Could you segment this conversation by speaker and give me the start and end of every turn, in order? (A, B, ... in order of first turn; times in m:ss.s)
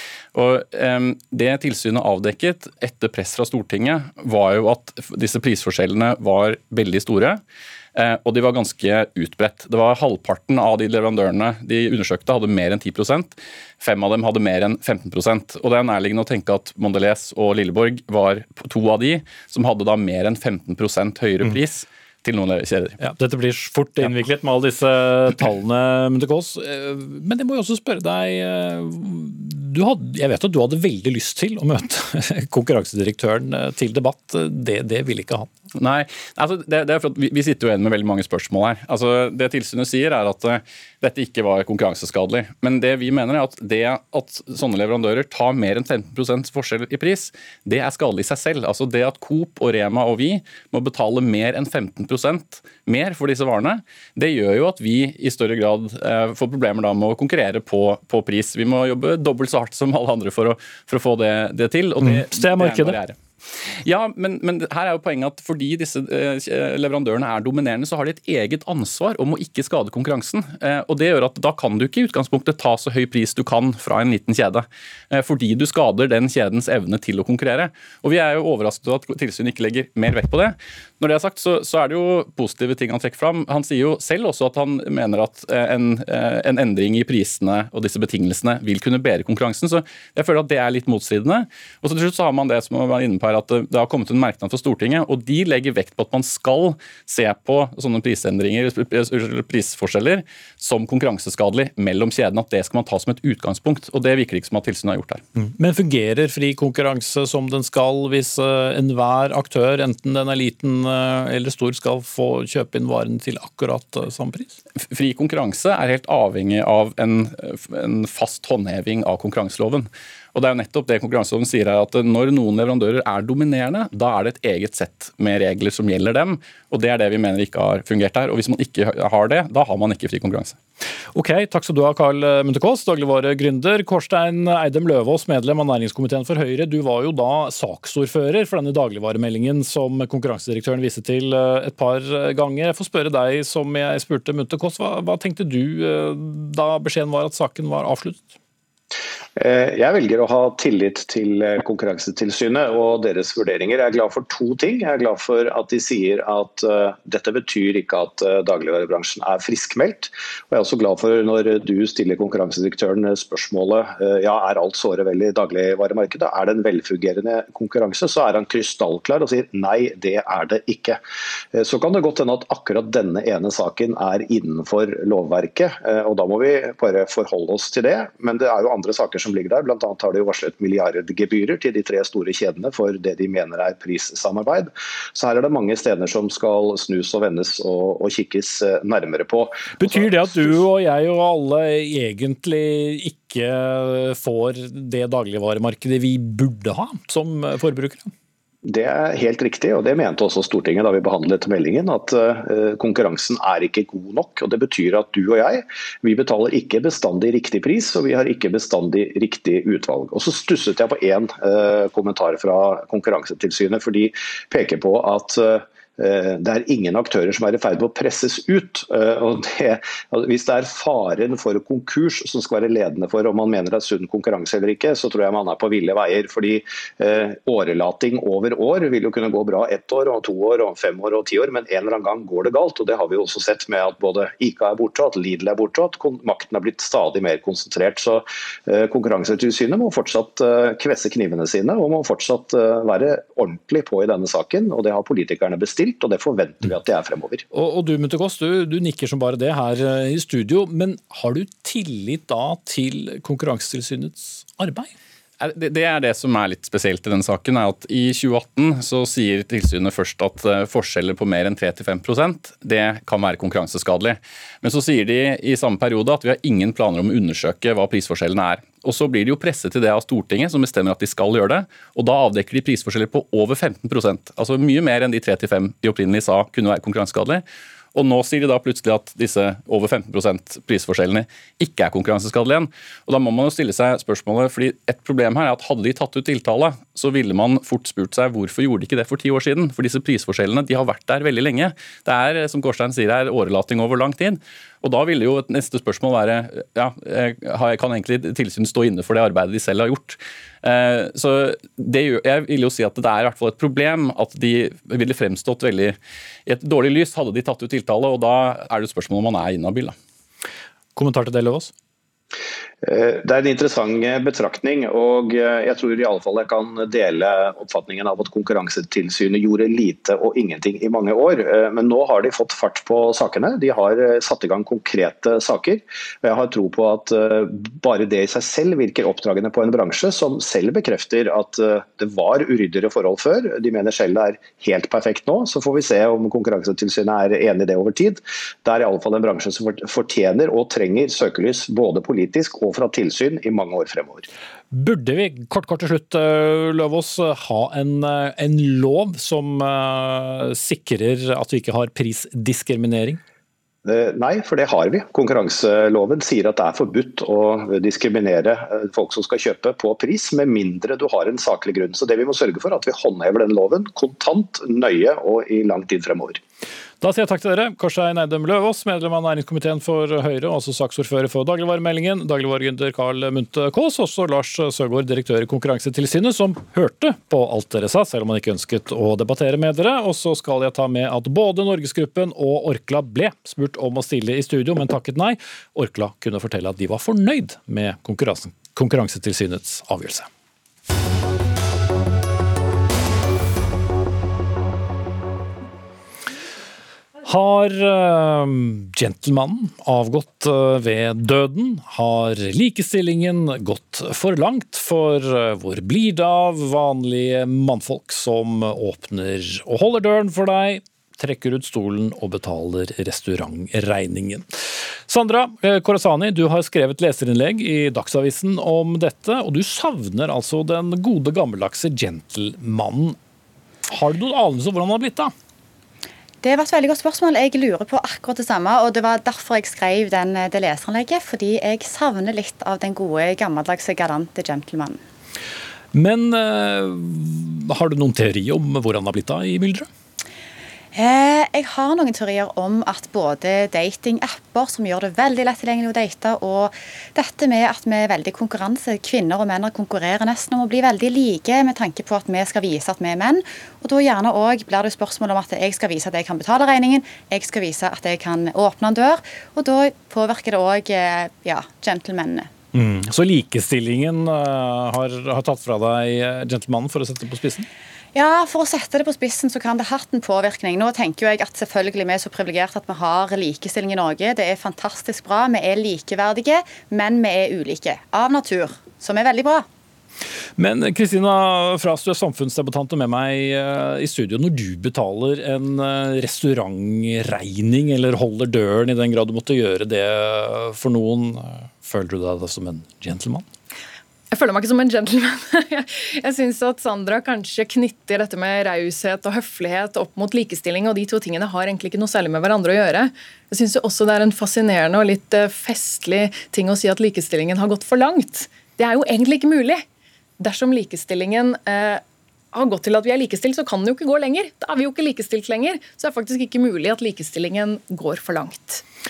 0:00.3-0:07.4 A
0:08.0-0:23.0 A
0:23.0-0:35.5 B
0:35.8-1:03.2 A
1:02.0-1:03.0 B
1:03.8-1:45.2 A
1:45.4-1:54.6 B
1:54.8-2:10.6 A
2:11.1-2:28.3 B
2:29.4-2:51.0 C
2:51.5-3:10.6 C
3:09.8-3:18.1 B
3:18.7-4:07.4 C
4:07.5-4:14.9 B
4:15.4-5:09.9 A
5:11.0-5:11.7 B
5:12.8-5:44.3 C
5:44.7-5:53.2 B
5:53.8-6:06.4 C
6:07.0-6:30.3 B
6:37.2-6:54.4 B
6:55.1-7:03.2 B
7:03.9-7:05.3 B
7:06.4-7:15.0 D
7:15.9-7:19.9 B
7:21.0-7:42.5 D
7:42.7-7:47.7 B
7:48.2-7:59.7 D
8:00.6-8:13.5 B
8:14.3-8:29.8 E
8:30.4-8:38.8 E